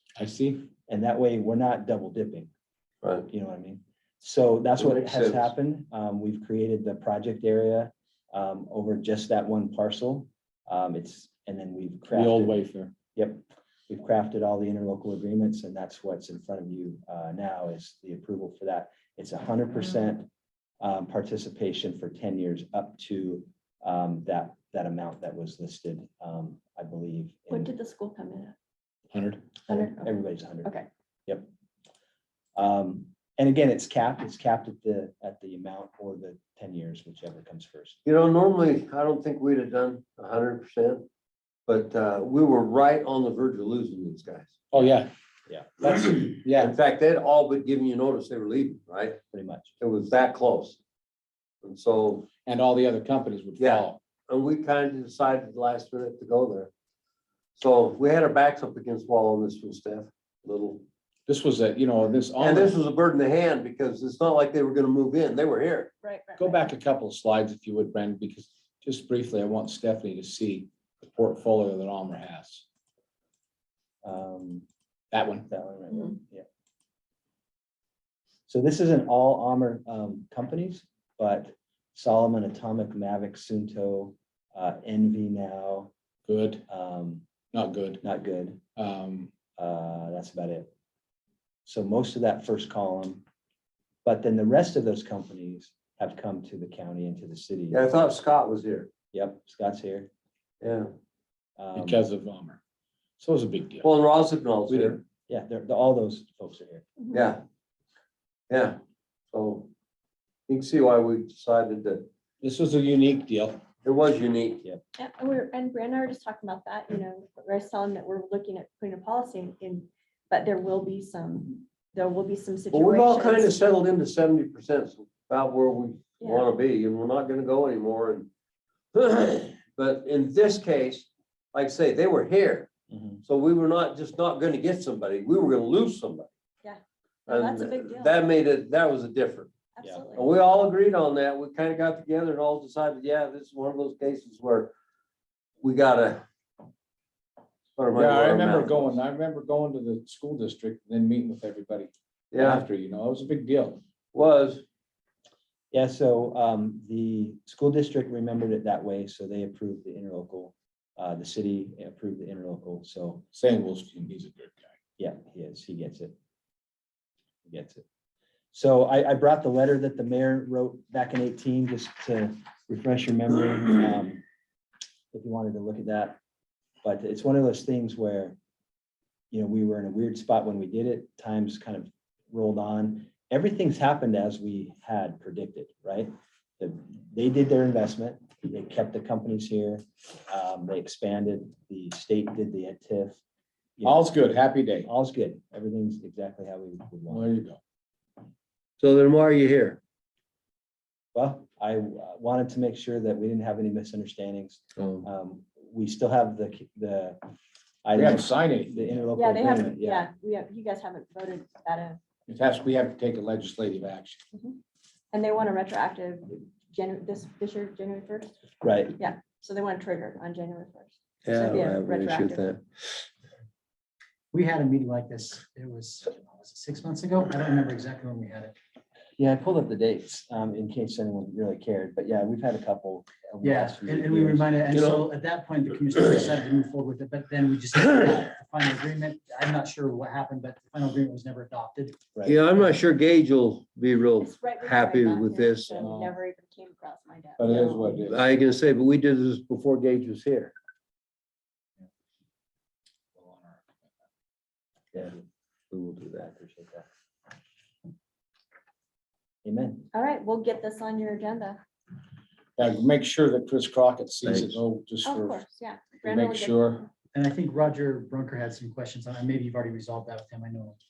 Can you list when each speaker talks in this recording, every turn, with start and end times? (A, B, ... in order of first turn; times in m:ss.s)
0:00.2-0:00.7 A
0:00.9-0:02.5 B
0:03.3-0:12.6 B
0:04.8-0:05.5 C
0:12.1-0:12.9 A
0:13.2-0:20.3 B
0:20.8-0:27.7 B
0:27.5-0:28.6 D
0:29.1-0:29.5 A
0:29.7-0:30.7 B
0:29.7-0:30.1 D
0:32.6-0:38.0 B
0:38.0-0:41.1 C
0:41.7-0:44.6 C
0:44.7-0:45.1 A
0:45.5-0:45.8 B
0:45.8-0:46.7 A
0:46.6-0:49.2 C
0:49.3-0:49.8 B
0:49.8-0:50.8 C
0:51.6-0:52.3 C
0:52.4-0:54.0 A
0:53.6-0:56.7 C
0:57.6-1:00.8 C
1:01.3-1:02.8 A
1:02.4-1:05.9 C
1:06.0-1:06.7 D
1:06.4-1:12.6 A
1:14.0-1:14.7 B
1:15.1-1:15.5 A
1:15.5-1:16.5 B
1:18.5-1:25.9 B
1:26.3-1:26.6 A
1:26.7-1:27.2 B
1:27.5-1:28.0 A
1:28.0-1:28.6 B
1:28.8-1:29.3 A
1:29.6-1:30.7 B
1:31.6-1:33.2 B
1:34.0-1:37.8 B
1:37.7-1:38.9 C
1:39.1-1:40.1 B
1:40.6-1:40.9 C
1:41.6-1:42.0 B
1:41.8-1:42.6 A
1:43.2-1:43.9 A
1:43.8-1:45.0 C
1:44.8-1:46.8 B
1:47.0-1:47.2 D
1:47.1-1:47.4 C
1:48.5-1:48.8 C
1:49.3-1:49.7 C
1:50.5-1:52.1 C
1:52.4-1:53.6 A
1:53.8-1:54.6 C
1:55.0-2:03.6 D
2:02.7-2:08.3 C
2:06.2-2:06.5 D
2:08.9-2:12.7 C
2:12.9-2:13.2 B
2:13.2-2:16.3 C
2:16.6-2:18.2 D
2:17.3-2:19.5 C
2:19.8-2:20.3 D
2:20.2-2:24.7 C
2:25.6-2:26.2 C
2:27.8-2:29.0 C
2:27.9-2:33.8 A
2:32.3-2:32.6 C
2:34.1-2:34.6 C
2:35.7-2:43.2 B
2:43.3-2:44.8 A
2:45.0-2:46.2 B
2:47.4-2:47.8 B
2:48.5-2:54.2 B
2:55.1-2:56.2 B
2:56.8-2:58.4 B
2:59.3-3:13.2 B
3:13.8-3:14.1 B
3:13.8-3:14.9 A
3:14.8-3:17.3 B
3:17.1-3:17.6 A
3:18.8-3:19.8 C
3:21.1-3:27.2 B
3:24.8-3:25.1 C
3:27.8-3:30.1 B
3:27.9-3:29.1 A
3:29.2-3:32.0 D
3:32.3-3:34.2 A
3:34.3-3:34.6 D
3:35.1-3:38.4 D
3:38.6-3:39.0 B
3:39.0-3:42.5 D
3:41.3-3:42.6 C
3:44.3-3:48.6 E
3:49.2-3:54.5 B
3:53.4-4:02.1 E
3:54.7-3:55.1 C
4:02.2-4:02.4 B
4:02.2-4:05.9 C
4:04.2-4:08.0 D
4:05.8-4:06.2 A
4:07.4-4:08.2 A
4:08.0-4:10.5 C
4:13.2-4:13.7 A
4:15.7-4:16.0 C
4:15.9-4:16.9 B
4:19.4-4:19.9 B
4:19.9-4:21.6 D
4:22.6-4:25.4 A
4:24.3-4:24.6 C
4:25.0-4:26.9 D
4:26.0-4:26.8 A
4:27.1-4:30.8 E